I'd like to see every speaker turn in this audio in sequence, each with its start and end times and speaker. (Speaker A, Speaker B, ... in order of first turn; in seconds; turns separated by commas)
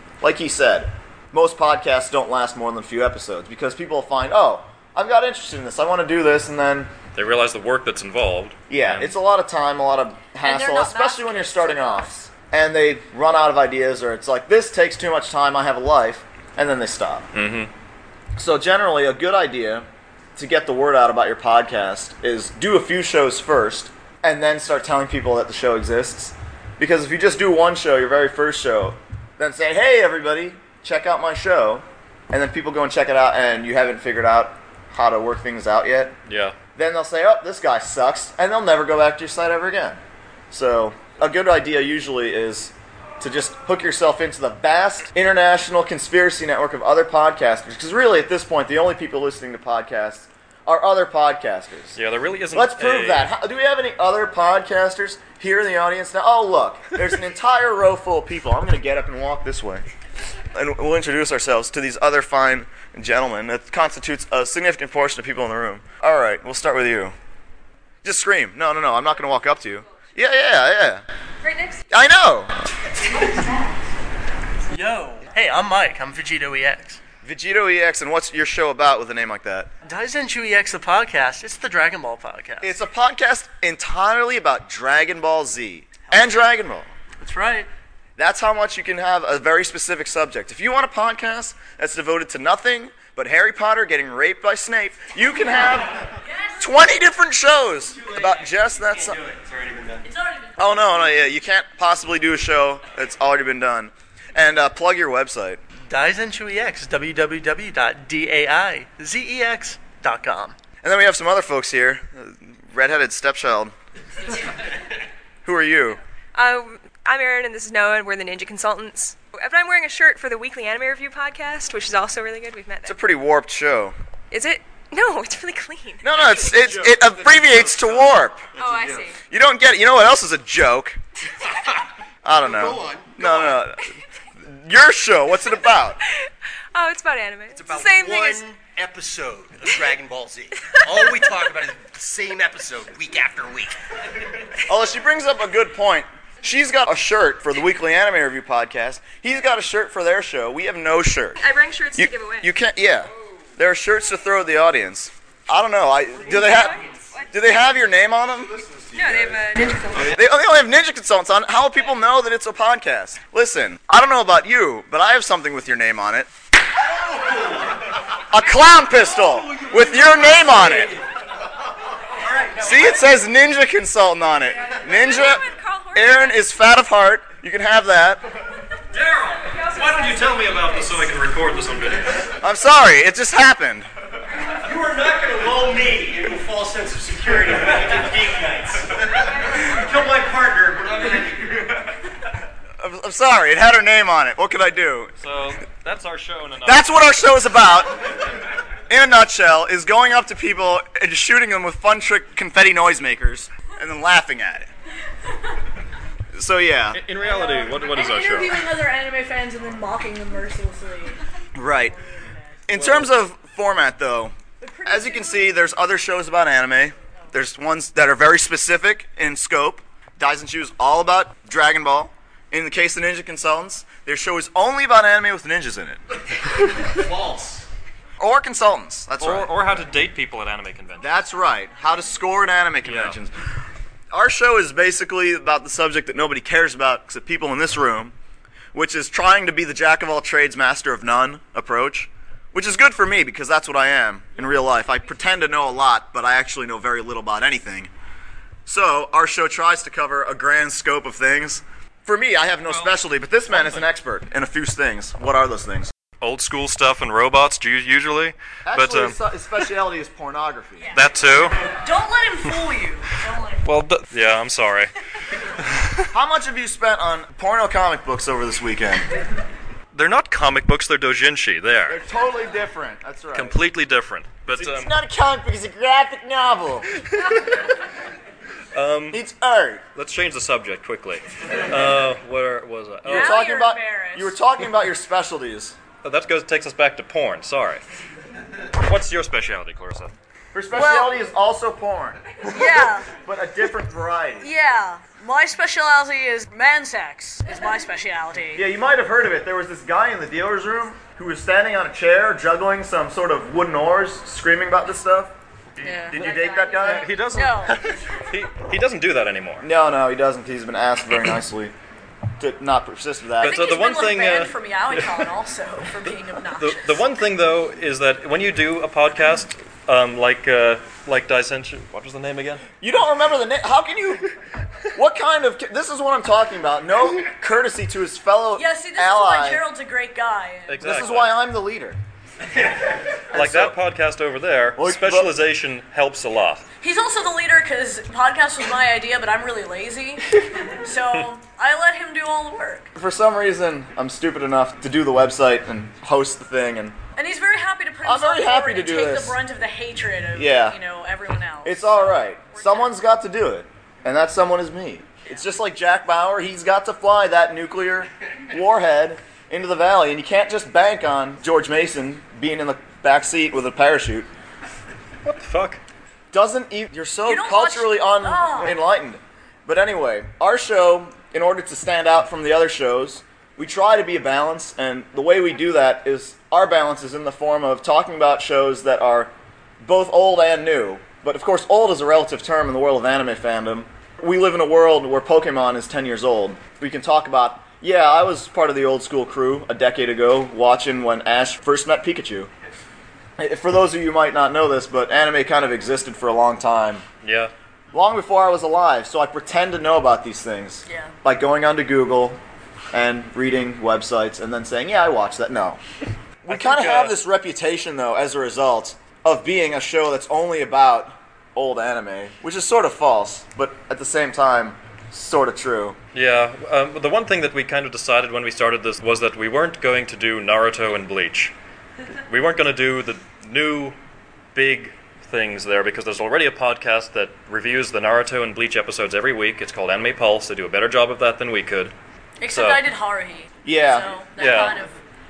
Speaker A: 0.2-6.9, Speaker B: 7.1-9.1, Speaker A: 8.7-17.3, Speaker C: 10.4-12.3, Speaker B: 17.3-17.7, Speaker A: 18.4-19.8, Speaker A: 20.4-36.2, Speaker B: 36.2-36.6, Speaker A: 36.8-40.0, Speaker A: 40.5-52.0, Speaker B: 51.9-53.3, Speaker A: 52.5-59.9, Speaker A: 60.5-67.1, Speaker A: 68.0-71.0, Speaker A: 71.9-72.6, Speaker D: 74.7-77.0, Speaker A: 77.2-79.7, Speaker D: 79.8-82.7, Speaker A: 82.6-86.9, Speaker D: 86.1-86.4, Speaker D: 87.2-87.7, Speaker A: 88.2-96.0, Speaker C: 96.2-96.8, Speaker A: 96.6-99.2, Speaker E: 99.3-100.0, Speaker C: 100.0-101.1, Speaker A: 100.6-105.6, Speaker D: 105.9-110.5, Speaker A: 110.8-113.7, Speaker A: 115.4-116.0, Speaker F: 116.3-123.0, Speaker A: 122.8-124.0, Speaker F: 124.3-126.1, Speaker A: 126.0-128.5, Speaker E: 126.4-129.1, Speaker F: 128.6-129.2, Speaker A: 129.3-131.0, Speaker A: 132.2-136.0, Speaker E: 132.4-133.6, Speaker F: 136.2-138.4, Speaker E: 137.5-143.7, Speaker A: 144.7-151.4, Speaker F: 151.4-152.5, Speaker A: 151.9-156.8, Speaker F: 156.2-157.3, Speaker A: 157.3-159.2, Speaker F: 158.9-160.2, Speaker A: 160.1-166.3, Speaker E: 167.0-167.5, Speaker A: 168.3-170.9, Speaker E: 172.2-173.0, Speaker A: 172.6-178.2, Speaker F: 174.8-176.5, Speaker B: 178.9-182.3, Speaker A: 182.4-183.9, Speaker E: 184.4-191.7, Speaker A: 192.8-195.1, Speaker B: 195.2-197.0, Speaker A: 196.6-198.1, Speaker A: 198.9-204.7, Speaker A: 206.3-207.0, Speaker B: 206.9-208.7, Speaker C: 207.2-211.2, Speaker A: 211.5-211.9, Speaker C: 211.8-212.6, Speaker A: 212.7-226.0, Speaker B: 212.7-213.1, Speaker C: 214.6-215.7, Speaker E: 226.8-227.6, Speaker A: 228.2-229.6, Speaker B: 229.2-231.1, Speaker A: 231.0-233.5, Speaker B: 232.8-233.2, Speaker A: 234.1-238.1, Speaker A: 238.7-247.9, Speaker A: 248.7-255.9, Speaker B: 252.7-253.8, Speaker B: 256.2-259.2, Speaker A: 258.6-261.0, Speaker C: 260.8-263.6, Speaker B: 260.9-261.6, Speaker B: 263.6-264.9, Speaker B: 265.5-266.0, Speaker A: 266.1-269.1, Speaker B: 269.9-272.0, Speaker A: 271.9-273.6, Speaker B: 273.3-274.9, Speaker A: 274.5-276.9, Speaker B: 277.0-277.4, Speaker B: 278.7-279.2, Speaker A: 279.1-279.8, Speaker B: 279.9-283.4, Speaker A: 283.0-285.8, Speaker C: 283.1-284.3, Speaker B: 286.0-287.8, Speaker B: 288.7-290.1, Speaker A: 290.5-292.4, Speaker C: 290.7-291.3, Speaker C: 292.5-293.1, Speaker A: 293.1-294.5, Speaker C: 294.4-298.6, Speaker A: 298.5-305.3, Speaker C: 305.8-308.2, Speaker B: 305.8-309.6, Speaker A: 306.1-307.1, Speaker A: 309.6-311.7, Speaker A: 312.4-313.6, Speaker B: 313.4-315.4, Speaker C: 313.4-317.0, Speaker B: 316.5-322.6, Speaker A: 322.8-324.3, Speaker A: 324.9-329.6, Speaker C: 328.6-330.8, Speaker B: 330.7-331.3, Speaker A: 330.8-332.0, Speaker B: 333.3-336.6, Speaker A: 333.3-333.8, Speaker A: 334.8-335.3, Speaker C: 336.8-342.9, Speaker A: 342.9-347.0, Speaker C: 347.1-353.0, Speaker A: 348.0-349.4, Speaker A: 350.4-350.8, Speaker A: 351.6-364.3, Speaker B: 365.2-365.8, Speaker A: 366.3-392.5, Speaker C: 367.2-368.8, Speaker A: 393.4-397.0, Speaker B: 397.2-397.5, Speaker A: 397.9-402.4, Speaker C: 400.9-401.1, Speaker A: 402.9-405.8, Speaker A: 406.4-415.9, Speaker B: 406.5-407.2, Speaker B: 416.1-421.5, Speaker B: 422.1-424.0, Speaker B: 424.5-431.9, Speaker C: 432.4-434.9, Speaker B: 432.4-432.9, Speaker A: 433.6-434.1, Speaker B: 434.4-434.8